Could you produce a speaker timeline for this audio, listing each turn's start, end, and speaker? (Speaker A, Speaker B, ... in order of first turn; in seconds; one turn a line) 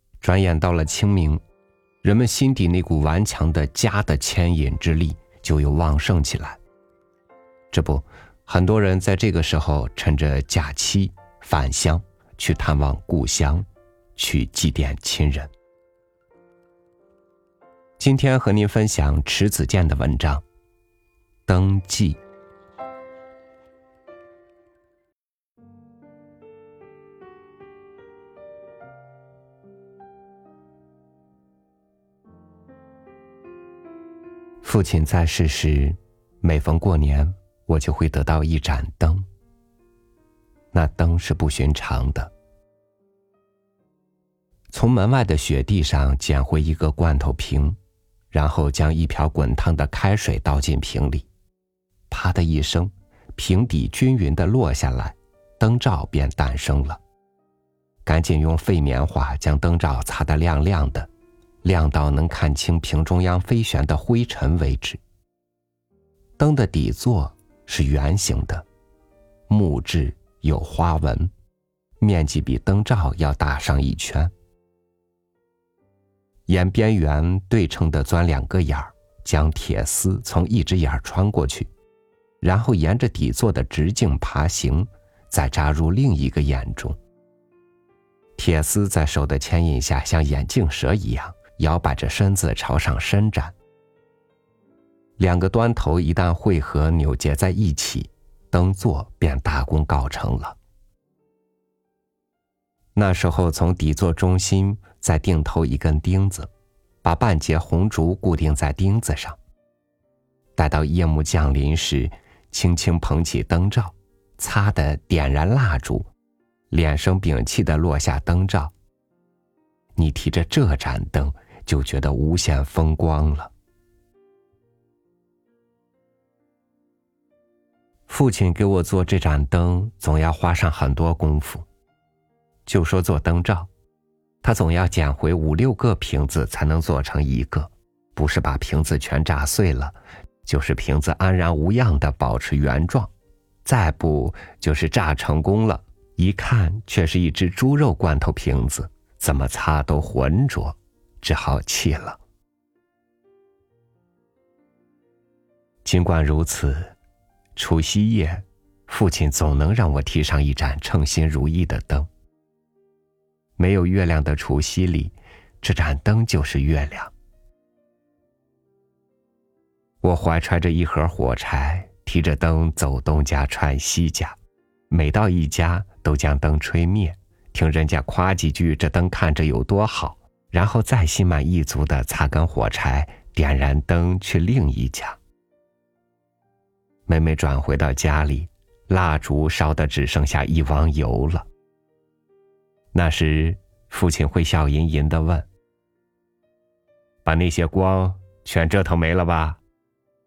Speaker A: 0.2-1.4
Speaker A: 2.0-6.6
Speaker A: 7.7-13.7
Speaker A: 14.2-15.5
Speaker A: 18.0-20.4
Speaker A: 21.5-22.2
Speaker A: 34.6-39.3
Speaker A: 40.7-42.3
Speaker A: 44.7-47.8
Speaker A: 48.3-51.3
Speaker A: 52.1-57.0
Speaker A: 58.1-61.1
Speaker A: 61.6-65.0
Speaker A: 66.4-68.7
Speaker A: 69.5-71.3
Speaker A: 72.0-74.3
Speaker A: 76.5-81.7
Speaker A: 82.4-87.0
Speaker A: 88.4-93.5
Speaker A: 95.2-100.6
Speaker A: 103.0-106.5
Speaker A: 107.0-109.4
Speaker A: 110.6-116.1
Speaker A: 116.7-118.7
Speaker A: 120.0-123.5
Speaker A: 128.1-131.7
Speaker A: 132.7-133.7
Speaker A: 134.4-143.1
Speaker A: 143.7-152.2
Speaker A: 155.8-156.9
Speaker A: 157.6-162.1
Speaker A: 163.6-167.1
Speaker A: 170.0-174.4
Speaker A: 174.9-185.2
Speaker A: 187.1-191.5
Speaker A: 192.9-195.5
Speaker A: 197.2-199.6